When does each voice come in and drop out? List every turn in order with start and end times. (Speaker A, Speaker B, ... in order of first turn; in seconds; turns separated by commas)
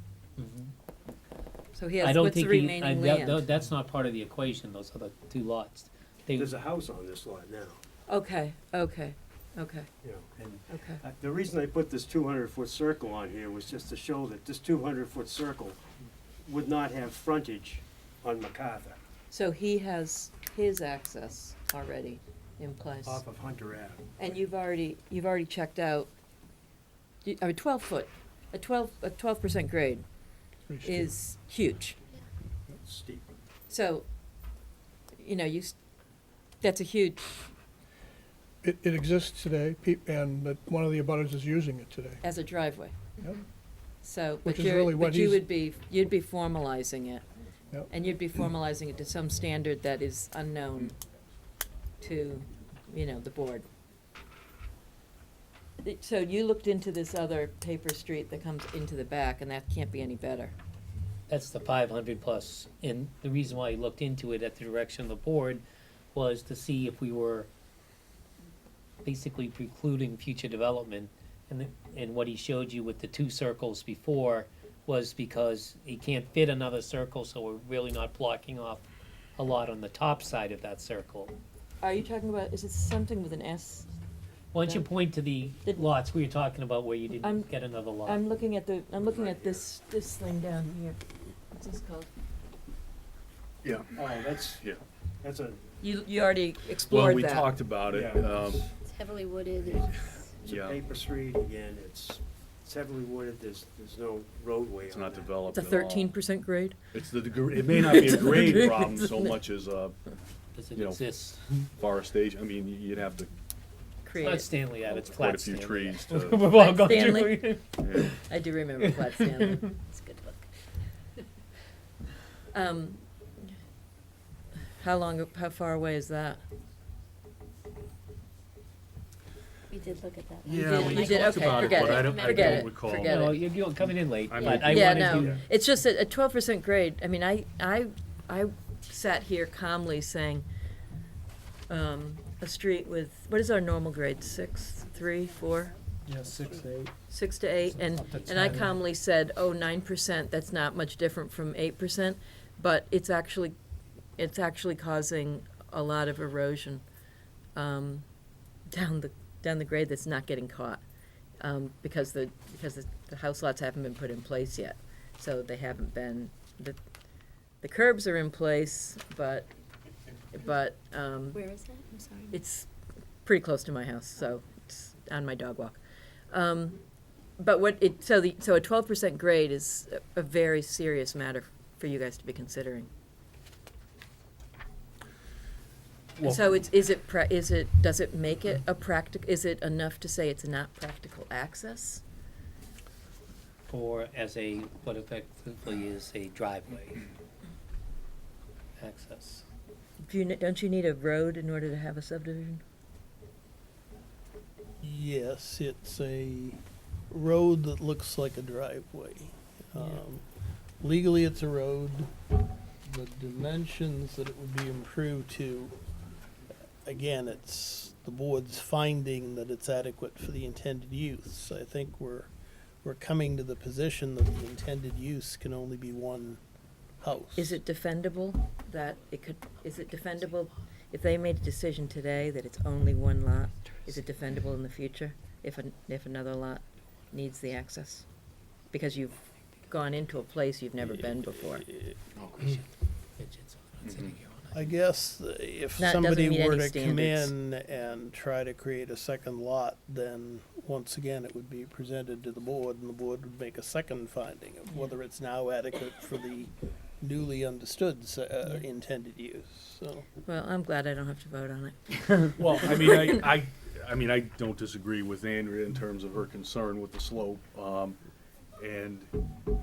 Speaker A: 0.4-0.7, Speaker B: 1.7-3.5, Speaker A: 2.0-6.5, Speaker C: 6.3-7.8, Speaker B: 8.1-9.9, Speaker C: 10.0-15.8, Speaker B: 10.7-11.0, Speaker C: 16.4-19.0, Speaker B: 19.3-23.2, Speaker C: 23.0-24.4, Speaker B: 24.2-26.1, Speaker B: 27.2-30.0, Speaker D: 30.7-31.1, Speaker B: 30.8-32.0, Speaker C: 32.7-33.3, Speaker B: 33.7-34.1, Speaker B: 35.2-35.8, Speaker B: 36.6-37.4, Speaker D: 38.6-42.2, Speaker B: 42.2-43.0, Speaker B: 44.0-47.2, Speaker D: 44.4-45.4, Speaker B: 47.9-51.0, Speaker B: 52.0-53.7, Speaker B: 55.8-60.5, Speaker A: 61.3-65.6, Speaker A: 66.1-67.5, Speaker A: 69.0-78.8, Speaker A: 79.3-81.3, Speaker B: 81.8-83.9, Speaker A: 84.5-88.2, Speaker B: 87.2-87.5, Speaker B: 88.0-92.1, Speaker C: 89.1-89.6, Speaker E: 93.6-94.8, Speaker C: 93.9-94.6, Speaker C: 95.2-95.6, Speaker B: 95.8-97.5, Speaker E: 96.8-98.6, Speaker C: 97.9-98.7, Speaker F: 98.8-100.2, Speaker C: 99.6-105.3, Speaker E: 100.4-100.8, Speaker E: 104.9-106.1, Speaker B: 105.5-106.8, Speaker E: 106.9-110.0, Speaker B: 107.7-109.3, Speaker A: 110.5-111.7, Speaker E: 110.7-111.0, Speaker E: 111.8-113.3, Speaker B: 114.0-114.5, Speaker A: 114.2-118.2, Speaker E: 114.8-117.1, Speaker B: 116.6-119.6, Speaker E: 117.8-118.2, Speaker A: 118.8-119.8, Speaker F: 119.9-120.4, Speaker B: 122.5-123.0, Speaker B: 124.8-126.4, Speaker F: 129.7-132.8, Speaker E: 130.4-133.3, Speaker B: 130.6-133.4, Speaker A: 132.9-135.4, Speaker E: 134.3-135.4, Speaker F: 134.4-134.7, Speaker B: 134.7-140.4, Speaker B: 141.7-145.8, Speaker G: 146.1-146.9, Speaker A: 146.1-146.7, Speaker B: 147.1-153.6, Speaker A: 147.7-148.7, Speaker B: 154.2-156.8, Speaker B: 157.5-158.1, Speaker B: 158.7-160.8, Speaker B: 161.4-166.8, Speaker B: 167.6-169.5, Speaker B: 170.3-171.4, Speaker F: 171.3-172.4, Speaker B: 172.3-172.7, Speaker B: 173.2-175.8, Speaker B: 176.3-176.8, Speaker B: 177.4-182.9, Speaker B: 186.2-192.0, Speaker A: 193.7-197.1, Speaker A: 198.8-199.4, Speaker B: 200.1-202.6, Speaker G: 204.8-210.2, Speaker G: 210.8-212.1, Speaker G: 212.8-215.8, Speaker G: 216.8-222.3, Speaker G: 222.8-226.4, Speaker G: 227.0-227.6, Speaker B: 227.3-238.1, Speaker B: 238.7-241.7, Speaker G: 241.5-242.0, Speaker A: 242.1-244.6, Speaker G: 244.5-260.1, Speaker B: 245.8-247.3, Speaker B: 260.2-263.1, Speaker E: 262.4-268.0, Speaker E: 268.6-269.1